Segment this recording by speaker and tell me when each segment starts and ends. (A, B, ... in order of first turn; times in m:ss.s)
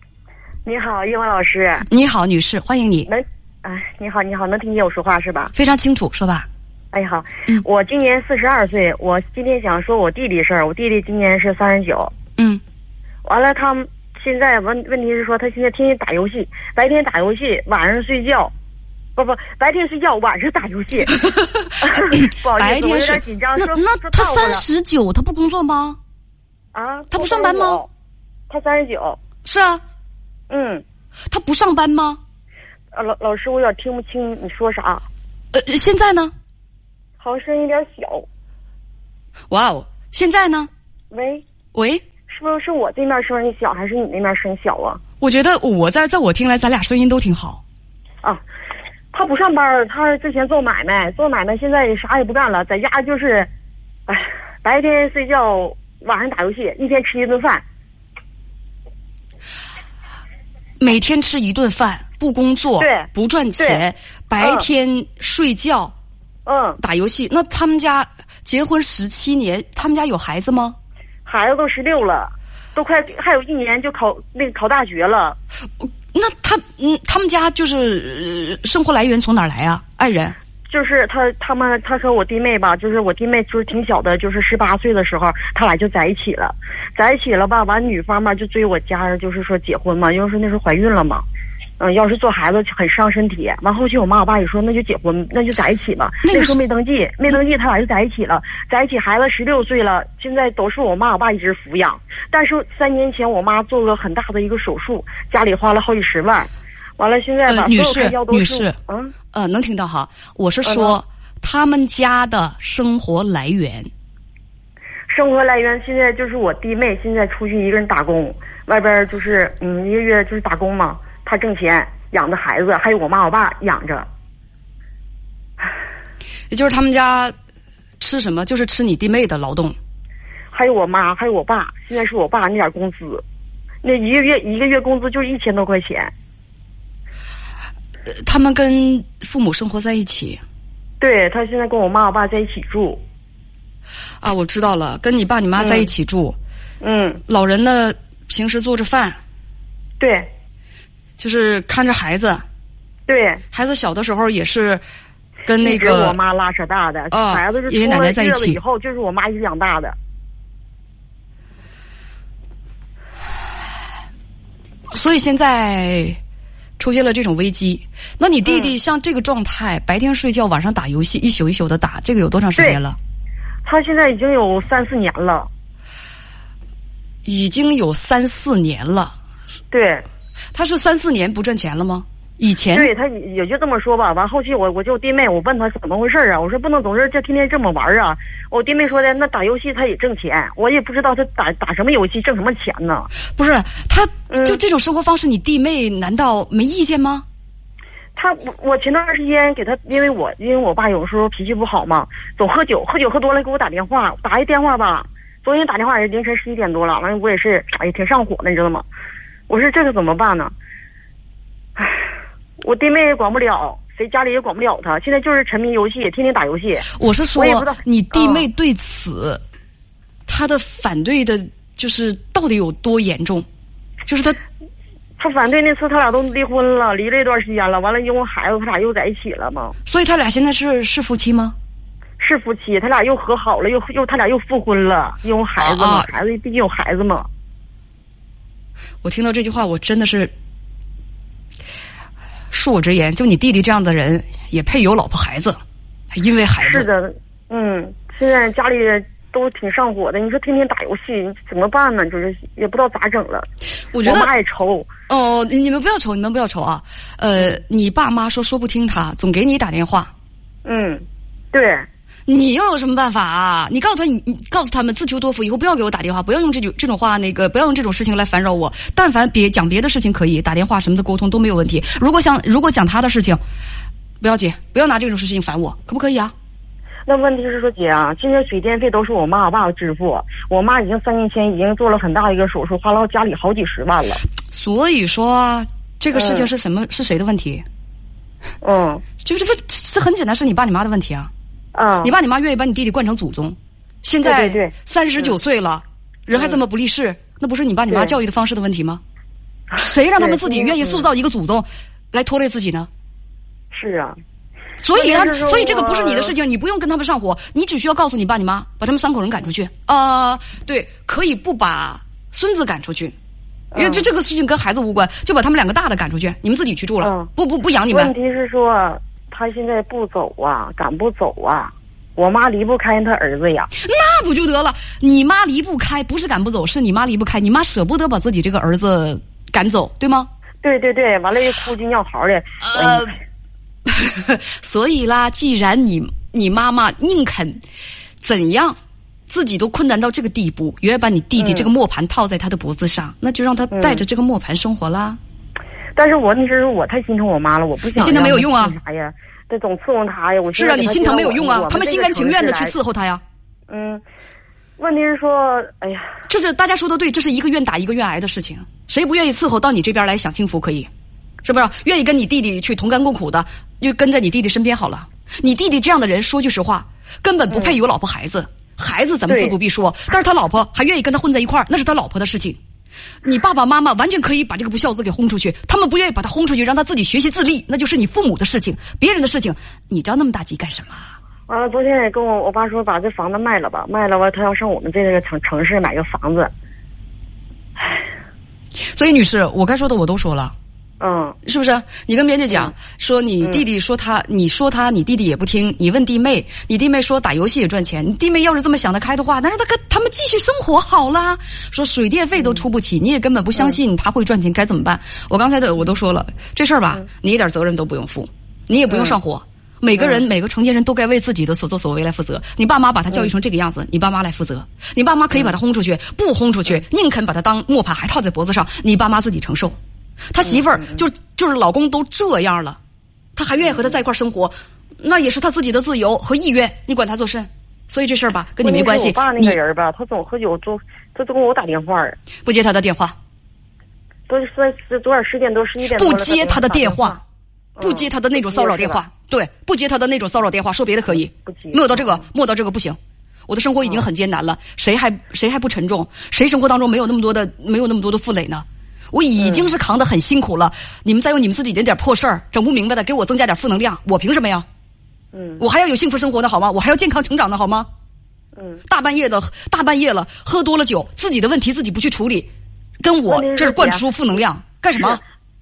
0:00.6-0:01.9 A
0:01.9-0:03.1 B
0:03.1-0:05.5 A
0:05.5-0:06.5 B
0:06.9-0:12.1 A
0:13.2-0:18.5 A
0:19.2-0:21.1 A
0:21.1-0:26.0 B
0:21.8-0:24.6 A
0:26.7-0:27.9 A
0:27.1-0:27.8 B
0:28.5-0:29.2 A
0:29.4-0:29.8 B
0:30.5-0:30.8 A
0:31.3-0:32.2 B
0:32.9-0:35.0 A
0:35.5-0:36.3 B
0:37.2-0:38.3 A
0:39.5-0:40.7 B
0:41.1-0:41.4 A
0:41.7-0:42.0 B
0:42.3-0:45.0 A
0:45.2-0:47.6 B
0:49.1-0:53.5 A
0:54.1-0:57.6 A
1:00.8-1:05.9 B
1:02.8-1:03.8 A
1:04.4-1:04.7 A
1:06.5-1:06.8 A
1:06.8-1:10.8 B
1:11.3-1:15.4 A
1:16.1-1:20.4 B
1:20.7-1:31.2 A
1:31.8-1:49.1 A
1:36.2-1:36.6 B
1:47.5-1:48.8 B
1:49.3-1:53.9 B
1:50.6-1:51.0 A
1:55.1-2:04.1 A
2:06.5-2:07.3 B
2:08.0-2:09.8 B
2:10.5-2:13.2 A
2:13.8-2:16.1 A
2:18.1-2:20.4 B
2:21.0-2:23.0 A
2:24.2-2:26.4 B
2:25.6-2:25.9 A
2:26.8-2:27.2 A
2:27.3-2:29.2 B
2:30.0-2:30.3 A
2:31.2-2:32.4 B
2:33.1-2:33.4 A
2:33.5-2:34.8 B
2:35.5-2:36.2 B
2:35.6-2:40.0 A
2:37.1-2:38.6 B
2:44.9-2:46.2 B
2:46.8-2:53.0 B
2:48.4-2:48.7 A
2:53.6-2:55.5 A
2:57.2-2:59.2 B
2:59.7-3:00.1 A
3:00.5-3:02.9 B
3:02.7-3:13.1 A
3:13.4-3:17.2 B
3:14.3-3:14.6 A
3:18.2-3:28.9 A
3:29.5-3:30.5 A
3:32.6-3:38.5 A
3:36.9-3:39.4 B
3:40.3-3:43.5 B
3:44.1-3:44.4 B
3:45.2-3:49.8 A
3:49.9-3:51.6 B
3:52.2-3:57.3 A
3:55.6-3:56.1 B
3:59.0-4:00.3 B
4:02.5-4:05.6 B
4:06.1-4:06.9 B
4:06.6-4:13.5 A
4:13.9-4:14.3 B
4:14.0-4:14.9 A
4:15.1-4:20.1 B
4:20.6-4:21.9 A
4:22.3-4:33.4 B
4:34.2-4:36.3 B
4:37.1-4:44.2 A
4:44.5-4:47.6 B
4:46.1-4:46.5 A
4:48.6-4:49.0 A
4:49.2-4:51.3 B
4:51.7-4:52.1 A
4:52.0-4:59.0 B
4:54.2-4:55.3 A
4:56.3-4:56.6 A
4:57.9-4:58.2 A
4:59.8-5:02.9 B
5:00.2-5:01.1 A
5:03.7-5:04.2 A
5:04.8-5:13.2 B
5:04.9-5:06.4 A
5:13.7-5:14.1 A
5:13.8-5:18.1 B
5:17.0-5:17.3 A
5:17.9-5:23.7 A
5:23.8-5:30.3 B
5:30.6-5:33.1 A
5:32.6-5:33.2 B
5:33.9-5:37.6 B
5:38.2-5:38.8 B
5:39.3-5:45.2 B
5:41.4-5:41.7 A
5:43.7-5:44.0 A
5:46.0-5:52.8 A
5:48.0-5:48.8 B
5:50.6-5:53.2 B
5:53.7-5:54.0 A
5:54.8-5:56.2 A
5:56.3-6:00.9 B
6:01.4-6:12.6 B
6:07.5-6:07.8 A
6:09.3-6:09.6 A
6:13.2-6:21.1 B
6:21.5-6:26.5 A
6:28.9-6:30.5 B
6:31.0-6:31.4 A
6:31.4-6:59.8 B
6:48.9-6:49.2 A
7:00.3-7:02.8 B
7:00.4-7:01.0 A
7:03.4-7:09.6 B
7:03.6-7:04.0 A
7:08.6-7:12.2 A
7:12.4-7:13.2 B
7:14.3-7:17.2 A
7:15.9-7:17.2 B
7:17.8-7:19.0 A
7:17.8-7:34.7 B
7:21.1-7:22.2 A
7:29.4-7:29.8 A
7:35.3-7:35.6 A
7:35.6-7:37.9 B
7:38.6-7:38.8 A
7:38.9-7:42.5 B
7:43.0-7:45.2 B
7:43.2-7:44.0 A